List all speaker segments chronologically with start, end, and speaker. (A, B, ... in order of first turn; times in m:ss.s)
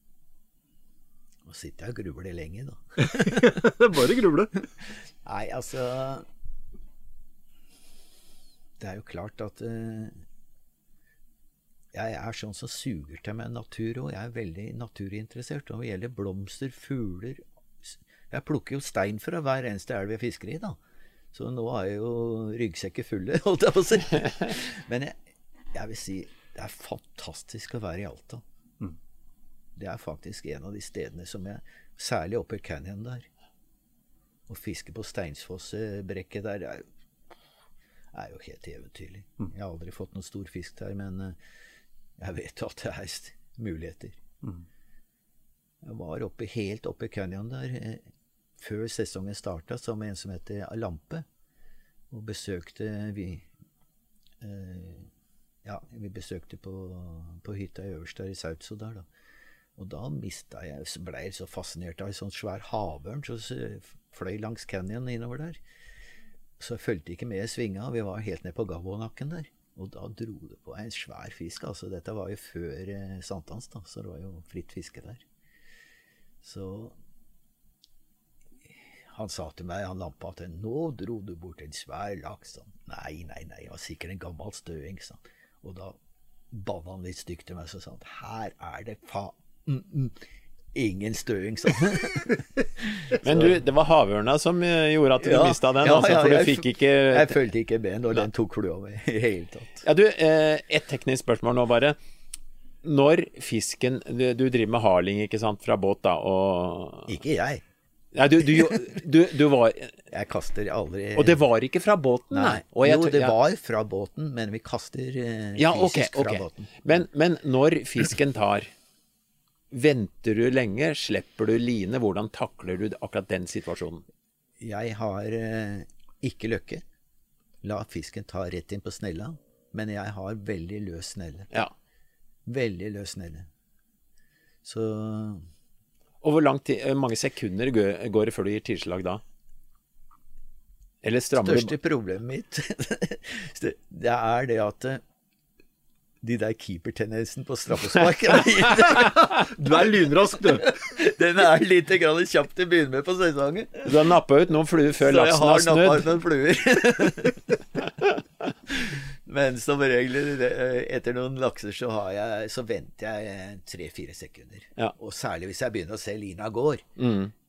0:01.4-0:03.6 A
0:03.0-0:04.6 B
0:05.2-0:06.3 A
0:08.8-0:10.2 A
0:11.9-0:20.8 A
0:21.3-0:25.2 A
0:25.7-0:28.4 A
0:29.8-0:33.3 A
0:34.5-0:36.9 A
0:38.1-0:41.4 A
0:42.2-0:44.2 A
0:45.8-0:48.0 A
0:48.6-0:51.2 A
0:52.1-0:53.5 A
0:54.4-0:55.1 A
0:55.6-0:59.0 A
0:59.8-1:05.6 A
1:06.6-1:15.2 A
1:16.4-1:17.0 A
1:19.1-1:26.0 A
1:26.5-1:30.2 A
1:30.7-1:33.6 A
1:33.2-1:37.4 C
1:35.2-1:39.8 A
1:39.8-1:42.0 C
1:42.8-1:47.1 C
1:47.1-1:47.6 A
1:48.1-1:49.9 C
1:50.1-1:51.4 A
1:51.2-1:53.3 C
1:52.3-1:56.7 A
1:55.6-1:58.7 C
1:59.7-2:04.0 C
2:04.6-2:06.8 A
2:07.6-2:11.5 A
2:12.4-2:13.5 A
2:14.6-2:15.4 A
2:16.2-2:19.2 C
2:21.0-2:21.7 C
2:21.4-2:25.0 A
2:26.2-2:29.4 A
2:29.0-2:30.7 B
2:30.4-2:34.1 A
2:33.8-2:36.1 C
2:35.0-2:37.6 A
2:38.7-2:47.0 A
2:47.0-2:47.3 C